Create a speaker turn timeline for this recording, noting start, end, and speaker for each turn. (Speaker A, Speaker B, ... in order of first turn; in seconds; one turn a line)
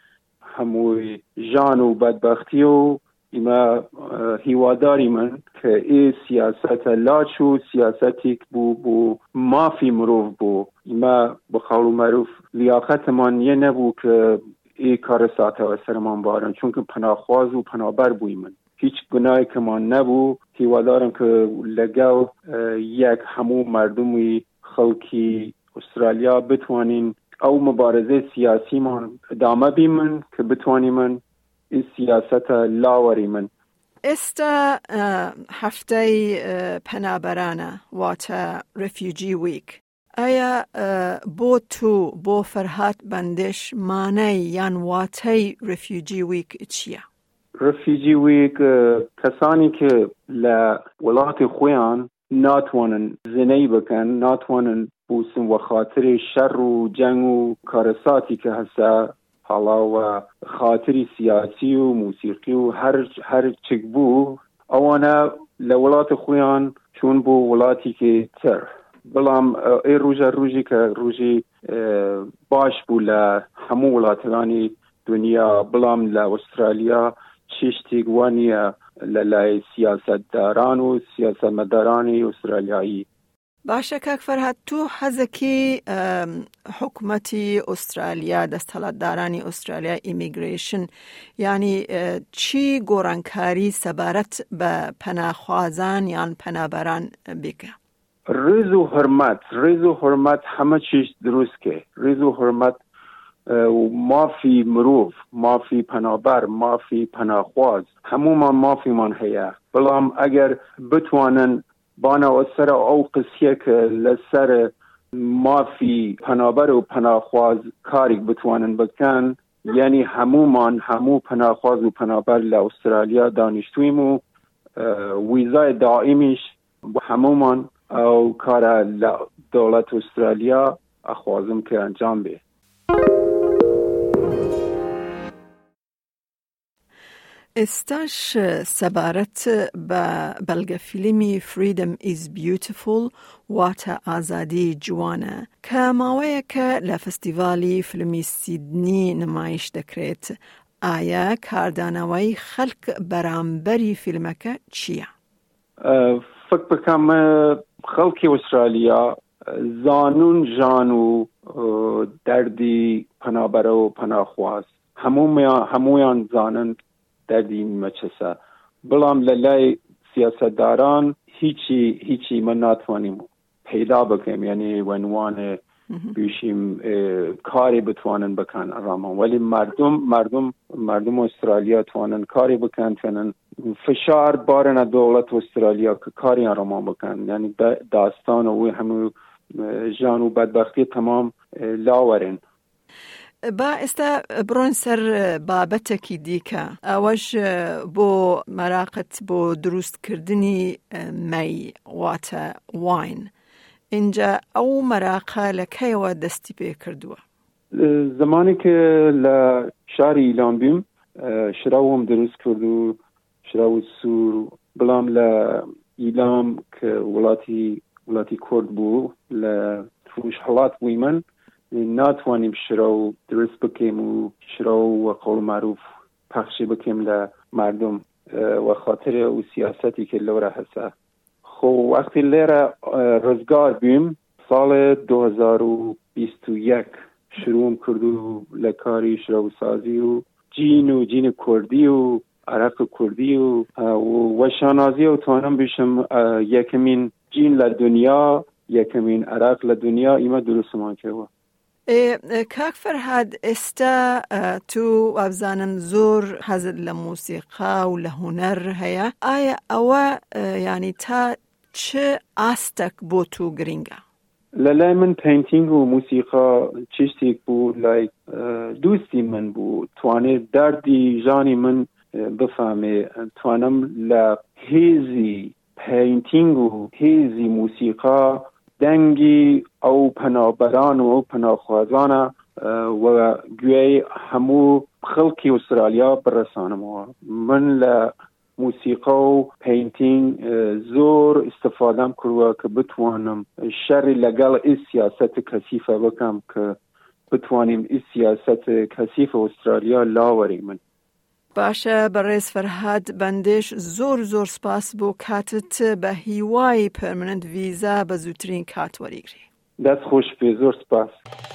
Speaker A: 0.5-33.5
Speaker B: 34.0-47.0
Speaker A: 47.6-83.0
Speaker B: 83.6-97.7
Speaker A: 98.3-102.8
Speaker A: 103.5-124.2
Speaker A: 124.8-132.4
Speaker B: 137.6-155.1
Speaker A: 155.8-175.6
Speaker A: 176.1-192.4
Speaker B: 193.5-203.3
Speaker B: 203.9-207.2
Speaker A: 207.7-225.8
Speaker A: 226.3-230.9
Speaker A: 231.4-251.3
Speaker B: 251.9-264.0
Speaker A: 264.5-296.8
Speaker A: 297.3-300.8
Speaker B: 301.5-309.4
Speaker A: 309.8-311.2